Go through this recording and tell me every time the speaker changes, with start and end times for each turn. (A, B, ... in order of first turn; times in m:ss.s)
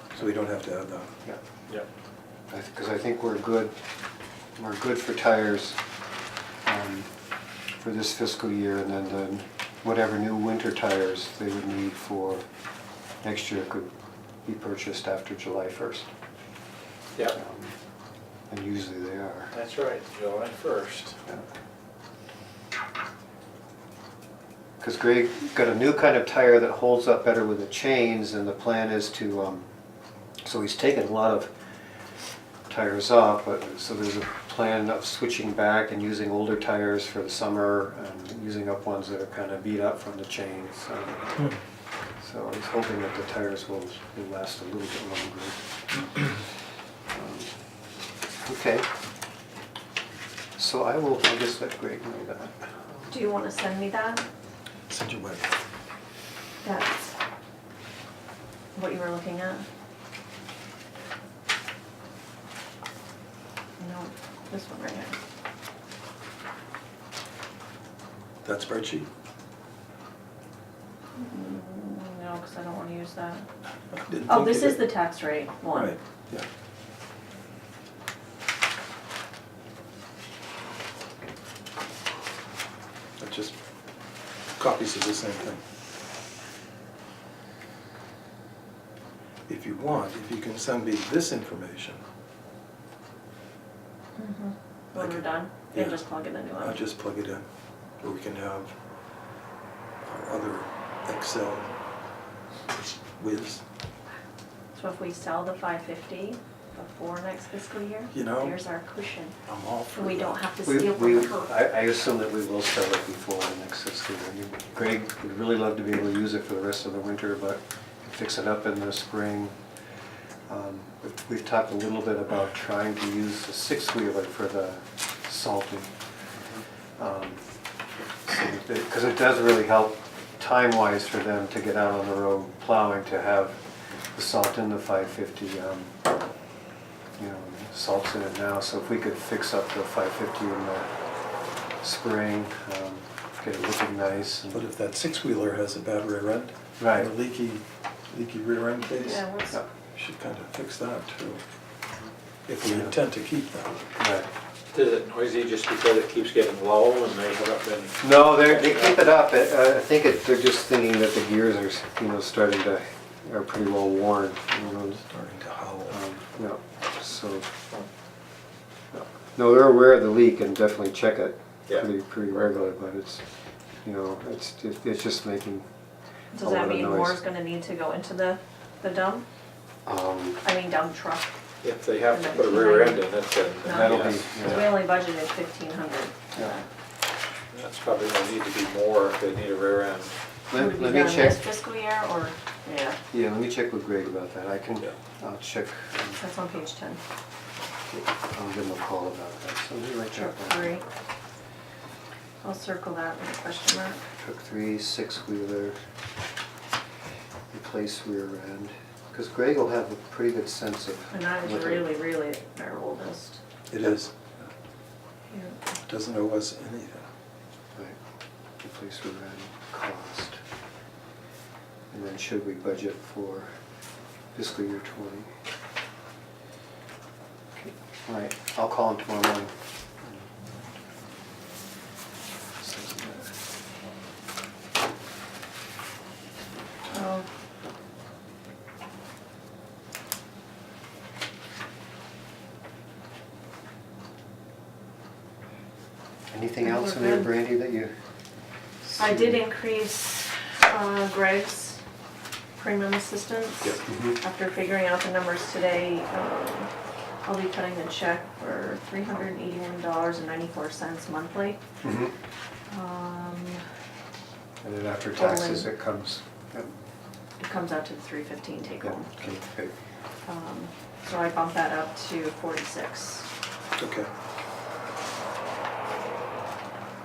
0:00.1-0:01.1 A
0:02.5-0:03.7 B
0:04.6-0:05.8 B
0:06.6-0:07.1 B
0:07.8-0:12.4 B
0:13.2-0:13.9 B
0:14.4-0:16.0 B
0:17.3-0:17.8 B
0:18.5-0:19.5 B
0:19.5-0:21.2 C
0:24.8-0:29.6 B
0:30.4-0:31.5 B
0:32.7-0:41.5 B
0:42.2-0:45.6 B
0:47.1-0:47.5 B
0:48.4-0:48.9 B
0:50.6-0:53.1 B
0:53.1-0:54.2 D
0:54.9-0:55.4 A
0:56.6-0:57.1 D
0:58.7-0:59.6 D
1:03.8-1:05.2 D
1:08.4-1:09.1 A
1:11.2-1:13.4 D
1:13.9-1:14.9 A
1:14.3-1:16.0 D
1:15.7-1:16.5 A
1:23.2-1:23.5 A
1:24.6-1:25.6 A
1:29.5-1:32.0 A
1:34.2-1:36.8 D
1:34.9-1:36.0 A
1:36.5-1:37.4 A
1:38.0-1:38.7 A
1:40.0-1:41.7 A
1:43.2-1:43.6 A
1:44.7-1:49.3 D
1:48.1-1:48.6 A
1:49.4-1:50.4 A
1:49.9-1:51.5 D
1:50.6-1:59.5 B
2:00.5-2:05.9 B
2:07.0-2:07.4 B
2:08.2-2:13.6 B
2:14.1-2:15.9 B
2:17.2-2:20.9 B
2:21.8-2:24.6 B
2:24.5-2:29.2 A
2:26.8-2:27.1 B
2:28.8-2:29.6 D
2:29.9-2:31.4 A
2:32.5-2:33.8 A
2:32.6-2:32.9 B
2:33.9-2:34.3 B
2:34.7-2:38.9 C
2:38.0-2:45.0 B
2:44.9-2:46.0 A
2:45.9-2:47.4 B
2:48.9-2:53.2 B
2:53.8-2:55.6 B
2:56.3-2:59.2 D
2:56.4-2:57.2 B
2:59.8-3:00.4 B
3:00.4-3:01.3 D
3:01.6-3:04.3 C
3:02.1-3:03.0 D
3:03.6-3:06.6 D
3:03.6-3:04.7 B
3:07.5-3:10.1 C
3:10.5-3:11.4 B
3:10.5-3:13.0 D
3:13.1-3:16.2 B
3:16.2-3:17.0 D
3:17.9-3:20.8 B
3:20.1-3:20.8 D
3:22.4-3:24.0 D
3:24.2-3:25.8 B
3:27.5-3:31.9 B
3:31.1-3:33.4 D
3:33.7-3:34.1 A
3:35.3-3:35.6 D
3:35.9-3:37.0 A
3:38.6-3:40.4 B
3:41.9-3:43.5 B
3:44.3-3:45.3 B
3:47.5-3:50.3 B
3:52.6-3:53.3 B
3:56.9-3:57.2 D
4:06.3-4:07.9 B
4:06.6-4:07.3 D
4:08.8-4:09.4 B
4:09.0-4:11.8 D
4:12.6-4:16.7 D
4:13.8-4:14.2 B
4:17.2-4:21.6 D
4:21.8-4:22.1 B
4:22.7-4:23.6 D
4:24.6-4:26.7 B
4:25.2-4:25.7 D
4:27.4-4:29.1 D
4:28.8-4:29.7 B
4:30.2-4:33.3 D
4:33.8-4:34.1 A